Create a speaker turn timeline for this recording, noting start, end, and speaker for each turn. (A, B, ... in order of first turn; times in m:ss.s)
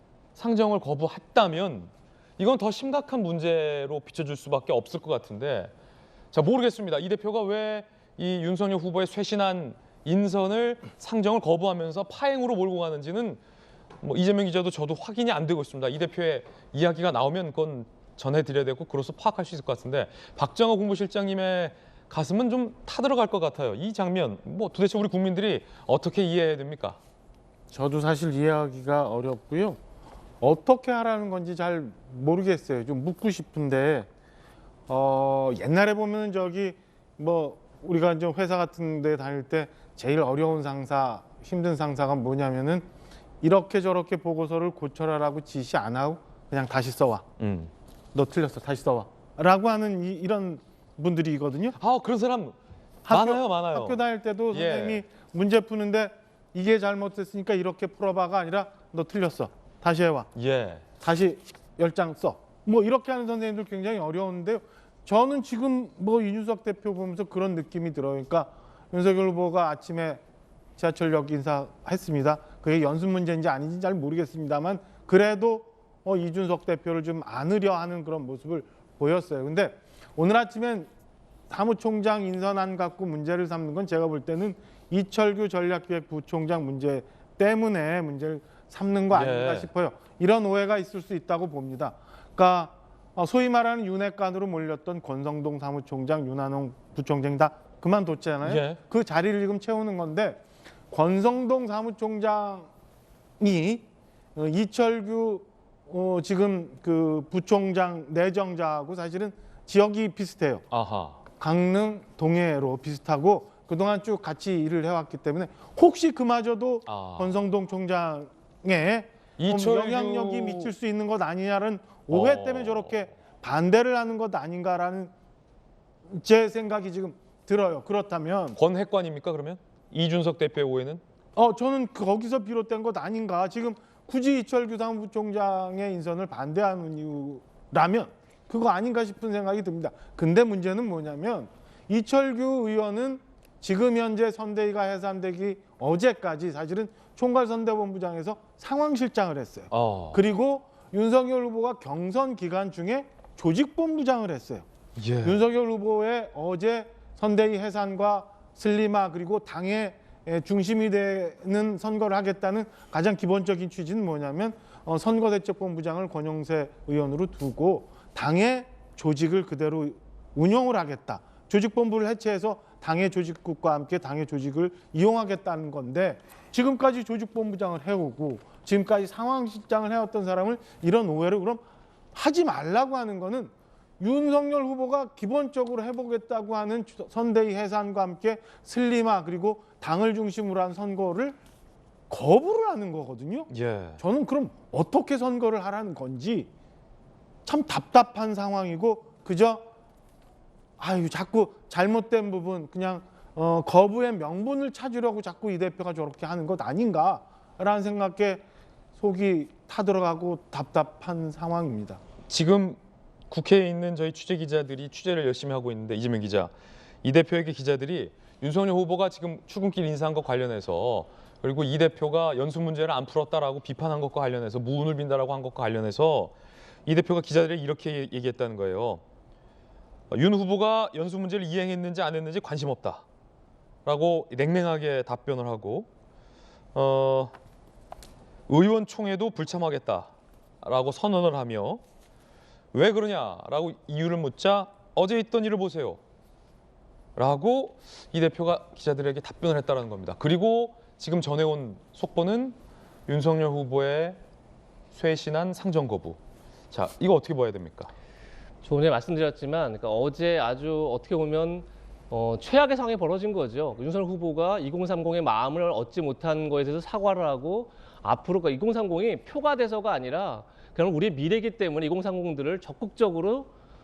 0:00.4-0:05.7 A
0:06.3-0:13.4 A
0:14.0-0:27.0 A
0:27.7-0:29.8 B
0:30.4-0:34.1 B
0:34.9-0:42.9 B
0:43.4-0:47.3 B
0:47.4-0:47.7 A
0:48.1-0:51.8 B
0:51.8-0:52.6 A
0:53.0-1:00.3 B
0:53.1-0:55.0 A
1:00.4-1:00.8 A
1:01.0-1:10.2 B
1:10.8-1:20.9 B
1:21.5-1:42.7 B
1:29.1-1:29.7 A
1:38.4-1:38.8 A
1:43.4-1:43.8 B
1:44.4-1:50.6 B
1:50.7-1:51.2 A
1:51.4-2:05.1 B
1:56.9-1:57.4 A
1:59.4-2:00.7 A
2:02.1-2:03.0 A
2:06.1-2:08.6 B
2:08.6-2:11.0 A
2:11.4-2:34.7 B
2:29.7-2:30.2 A
2:35.0-2:35.4 A
2:35.2-3:01.6 B
3:02.1-3:11.4 B
3:12.1-3:16.5 B
3:13.5-3:14.0 A
3:17.5-3:19.6 B
3:20.8-3:28.4 B
3:29.0-3:32.0 B
3:32.3-3:32.8 A
3:33.3-3:36.5 A
3:37.0-3:46.3 A
3:46.9-3:49.0 A
3:50.1-3:53.0 A
3:53.9-3:55.9 A
3:56.8-3:57.3 A
3:58.5-4:00.1 A
4:00.6-4:01.8 A
4:02.7-4:06.0 A
4:07.2-4:12.6 A
4:13.1-4:14.2 A
4:14.9-4:16.2 A
4:16.7-4:17.9 A
4:18.6-4:33.5 C